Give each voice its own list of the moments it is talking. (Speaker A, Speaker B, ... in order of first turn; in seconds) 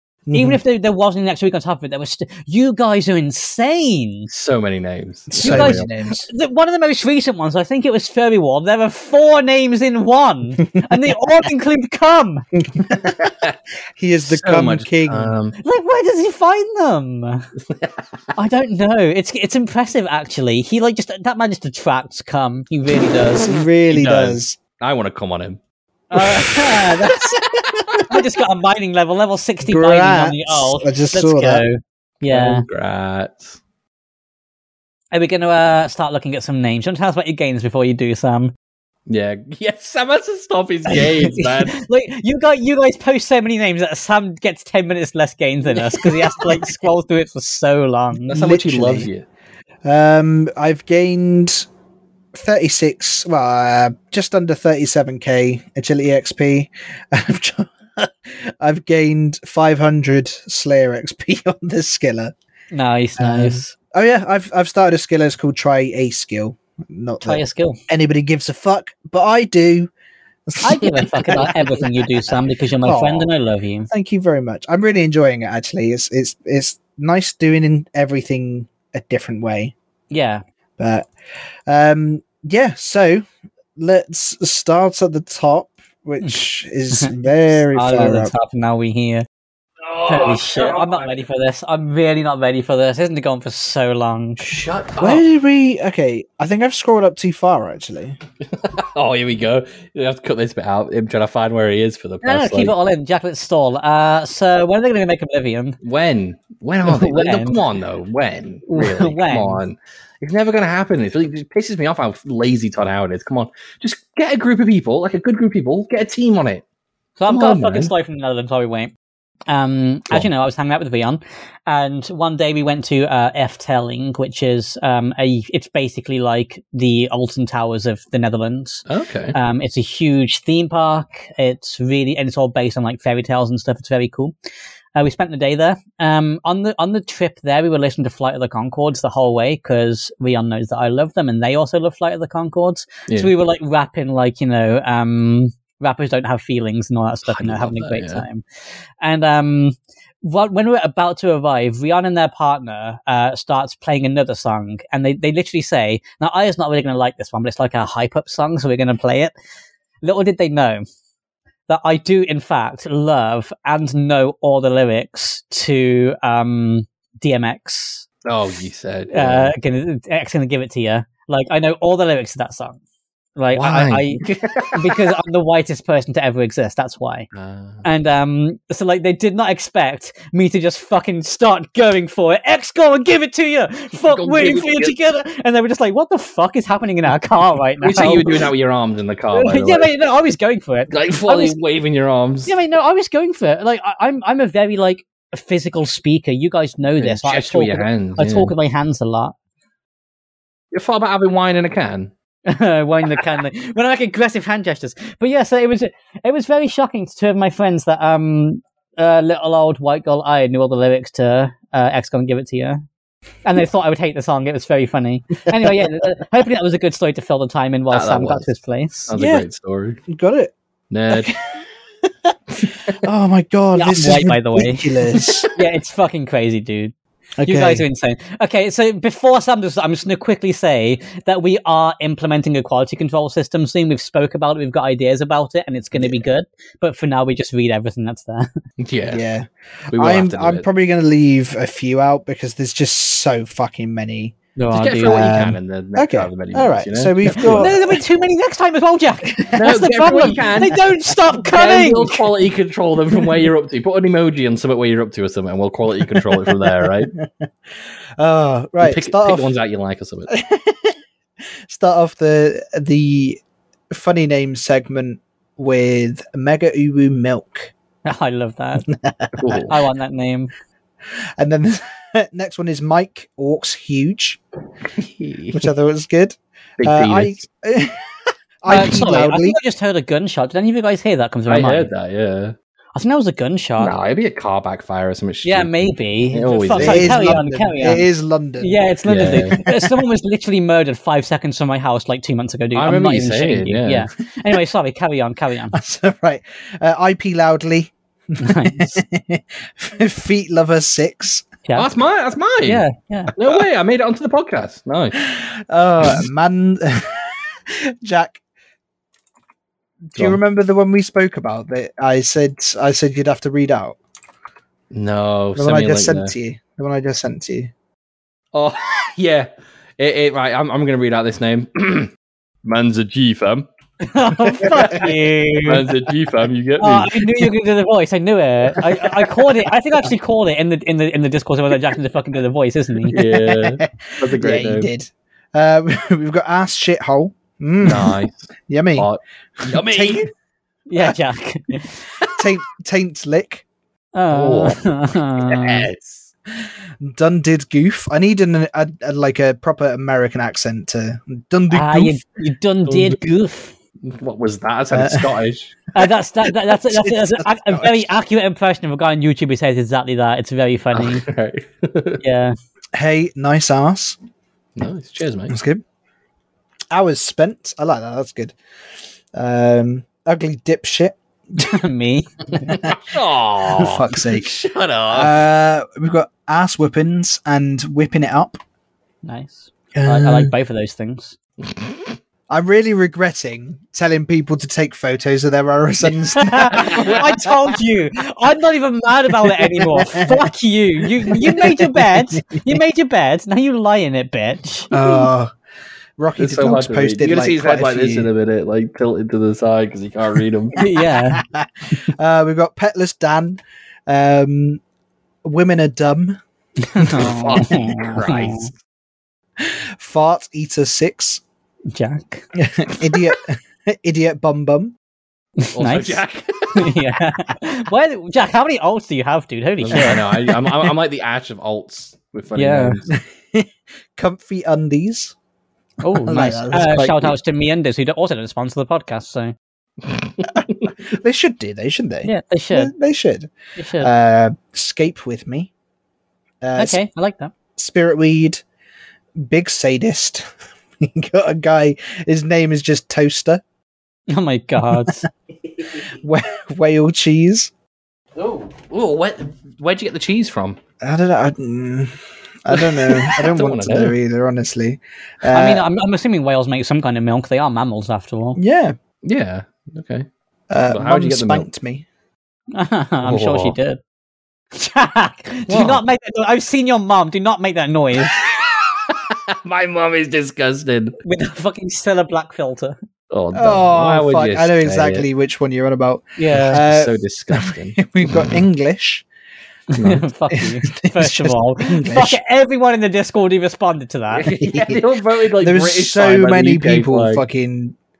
Speaker A: 0.3-0.6, 5.3-6.3, 12.6-13.3, 14.0-15.3, 23.4-24.6, 29.6-31.6, 48.3-49.1, 49.9-51.7, 52.3-62.3, 63.2-69.9, 70.5-71.8, 72.8-73.3, 73.9-79.7, 80.8-81.1, 81.7-83.2, 83.8-88.3, 95.0-98.2, 219.1-219.5, 220.1-220.5, 221.1-222.3, 222.9-225.5, 227.4-227.9, 235.9-236.2, 239.1-244.4, 245.0-248.0, 249.3-249.6, 256.0-257.5, 258.2-259.5, 260.3-261.0, 261.7-267.7, 268.9-269.7, 271.4-274.4, 275.5-278.0, 278.6-279.6, 286.7-290.0, 295.7-301.5, 305.2-308.4, 310.1-314.0, 315.6-317.7, 324.6-325.1, 333.1-338.2, 338.7-339.1, 339.6-340.3, 342.4-343.6, 346.6-352.2, 354.9-355.3, 356.5-358.1, 362.9-364.2, 365.5-365.8, 366.9-368.6, 369.3-371.7, 372.7-373.0, 373.7-378.6, 379.9-380.5, 382.5-387.5, 389.7-390.5, 391.3-392.8, 394.9-395.5, 396.2-398.3, 401.0-404.8, 405.4-406.4, 407.0-408.3, 409.6-411.4, 412.6-414.9, 419.9-420.2, 423.1-425.4, 426.1-427.4, 430.6-435.7, 436.6-437.0, 437.8-438.6, 439.4-443.6, 444.9-445.2, 446.0-447.7, 451.0-452.1, 452.6-455.9, 458.6-459.0, 460.7-462.1, 473.5-479.3, 480.5-482.4, 484.5-485.0, 485.6-488.0
Speaker B: 0.3-4.3, 5.4-12.4, 15.6-17.5, 18.4-23.5, 26.1-27.4, 28.1-32.6, 35.1-38.5, 41.4-48.4, 62.7-63.7, 67.2-67.8, 70.6-73.9, 80.1-80.4, 86.2-89.3, 90.1-94.5, 102.2-105.8, 106.8-107.6, 108.7-109.6, 117.2-118.9, 119.5-134.3, 134.9-148.4, 149.0-159.3, 160.0-160.8, 161.7-168.1, 169.1-172.8, 173.4-177.3, 177.8-188.4, 189.3-191.6, 192.5-199.3, 202.5-212.8, 213.4-219.1, 223.8-224.9, 225.5-238.5, 244.6-245.3, 247.4-252.3, 268.1-268.9, 269.7-270.5, 278.7-281.9, 282.9-283.9, 285.4-288.1, 288.6-295.8, 298.4-299.0, 302.6-303.3, 324.0-325.9, 326.8-333.2, 340.9-342.1, 344.1-345.9, 351.7-353.8, 355.9-361.2, 362.2-362.5, 371.6-372.8, 379.2-381.4, 386.4-395.2, 400.8-401.4, 406.8-408.7, 411.9-412.5, 415.6-416.2, 416.7-420.3, 422.6-423.0, 426.0-429.6, 432.2-432.9, 433.8-434.1, 436.8-437.5, 444.3-445.3, 455.5-458.6, 462.7-464.0, 464.7-468.4, 471.2-473.0, 476.4-476.8, 479.9-484.5
Speaker C: 4.3-5.9, 13.1-13.6, 14.3-15.6, 17.7-18.1, 23.9-25.6, 26.1-28.1, 32.3-33.6, 39.1-41.8, 48.3-49.2, 89.8-91.2, 94.4-95.2, 98.5-102.7, 105.8-116.6, 117.3-117.9, 128.9-129.4, 147.3-148.3, 168.2-169.5, 173.6-175.1, 177.3-177.8, 184.1-184.9, 187.8-189.9, 190.9-192.6, 197.0-198.5, 200.7-202.1, 217.9-218.5, 219.1-220.0, 220.9-221.3, 222.6-223.0, 225.2-225.5, 238.8-239.2, 239.9-240.7, 244.7-247.8, 249.6-257.1, 258.8-260.3, 269.4-269.8, 274.9-275.7, 276.8-277.4, 278.7-279.0, 281.5-282.6, 283.8-287.2, 289.1-289.6, 292.8-294.1, 301.8-305.2, 314.9-316.3, 318.5-322.1, 322.6-323.7, 325.7-327.5, 333.1-334.9, 337.8-340.3, 342.2-342.5, 344.3-344.8, 345.4-346.3, 352.9-353.2, 354.0-355.8, 360.9-362.2, 364.8-365.6, 372.6-375.4, 381.6-382.1, 386.8-387.2, 396.4-400.8, 407.2-408.7, 415.8-416.9, 419.8-423.1, 430.1-430.9, 448.4-450.8, 452.7-454.2, 459.2-460.3, 460.9-461.7, 463.2-463.8, 465.7-466.0, 468.3-471.2, 473.3-475.3, 476.7-478.6, 480.0-480.3, 484.3-487.4